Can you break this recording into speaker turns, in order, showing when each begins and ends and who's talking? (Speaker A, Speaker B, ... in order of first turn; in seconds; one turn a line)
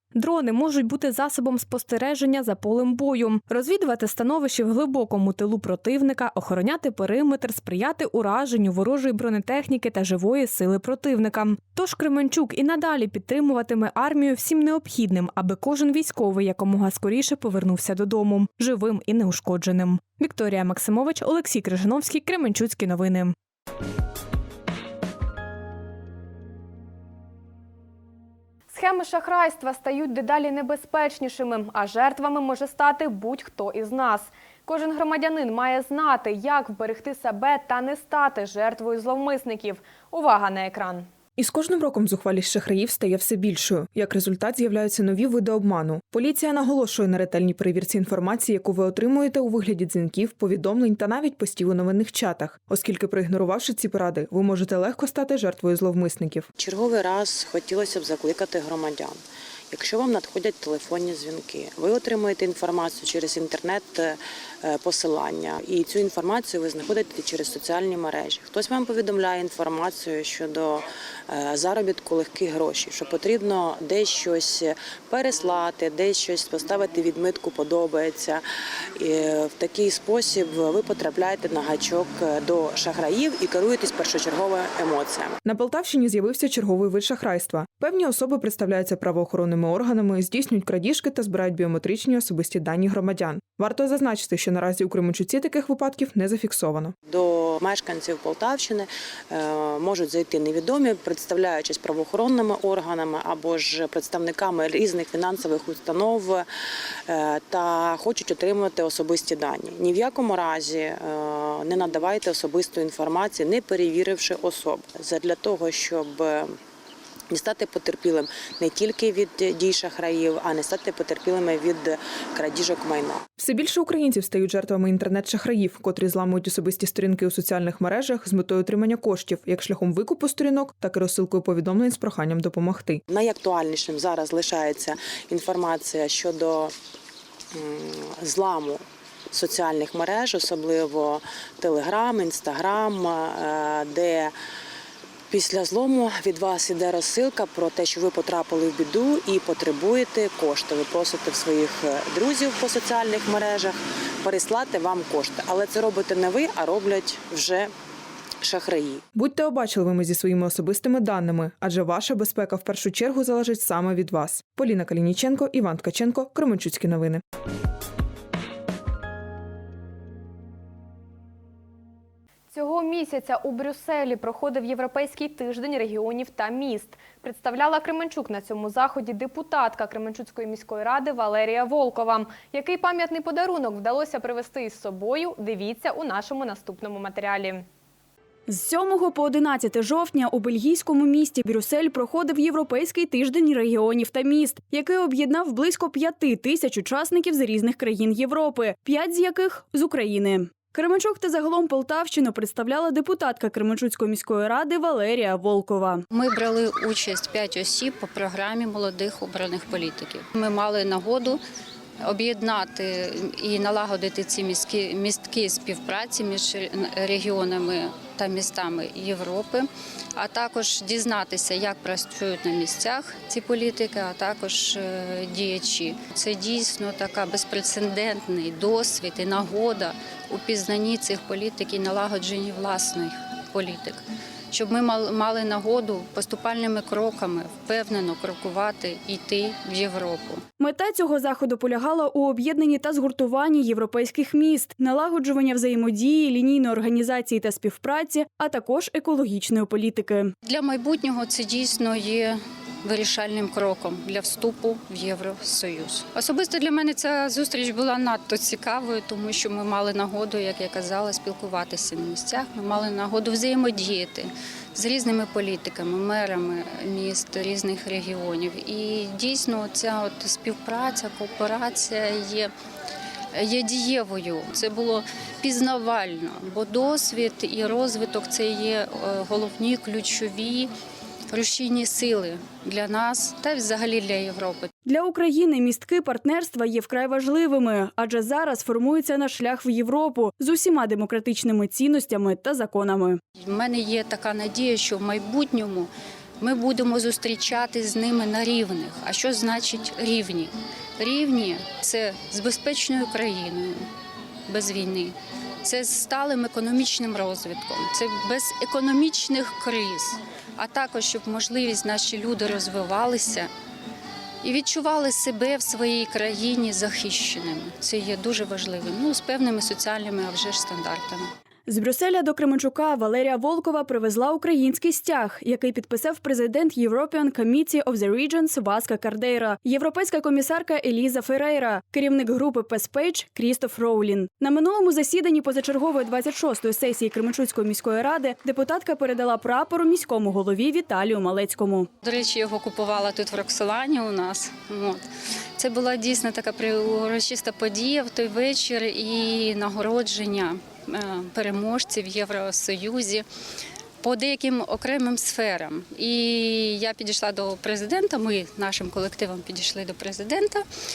Speaker A: 3.5-4.8
Speaker A: 5.3-6.5
Speaker A: 8.6-13.3
Speaker A: 13.9-23.3
Speaker A: 28.7-41.1
Speaker B: 41.4-56.5
Speaker C: 56.6-59.2
Speaker C: 59.7-78.4
Speaker C: 79.0-85.4
Speaker B: 85.4-96.9
Speaker C: 97.1-106.5
Speaker C: 107.1-116.6
Speaker C: 117.3-123.3
Speaker B: 123.4-133.0
Speaker C: 133.1-136.8
Speaker C: 137.5-144.3
Speaker C: 145.3-157.7
Speaker C: 158.4-159.0
Speaker B: 159.1-167.2
Speaker A: 172.5-187.7
Speaker D: 188.5-206.0
Speaker E: 206.1-211.4
Speaker E: 212.0-240.4
Speaker D: 240.6-250.3
Speaker E: 250.4-272.5
Speaker E: 273.3-280.7
Speaker E: 281.3-284.7
Speaker D: 284.9-293.2
Speaker E: 293.4-303.9
Speaker E: 304.5-313.5
Speaker E: 314.4-321.3
Speaker D: 321.7-341.9
Speaker E: 342.0-345.0
Speaker E: 345.6-353.3
Speaker E: 354.0-360.6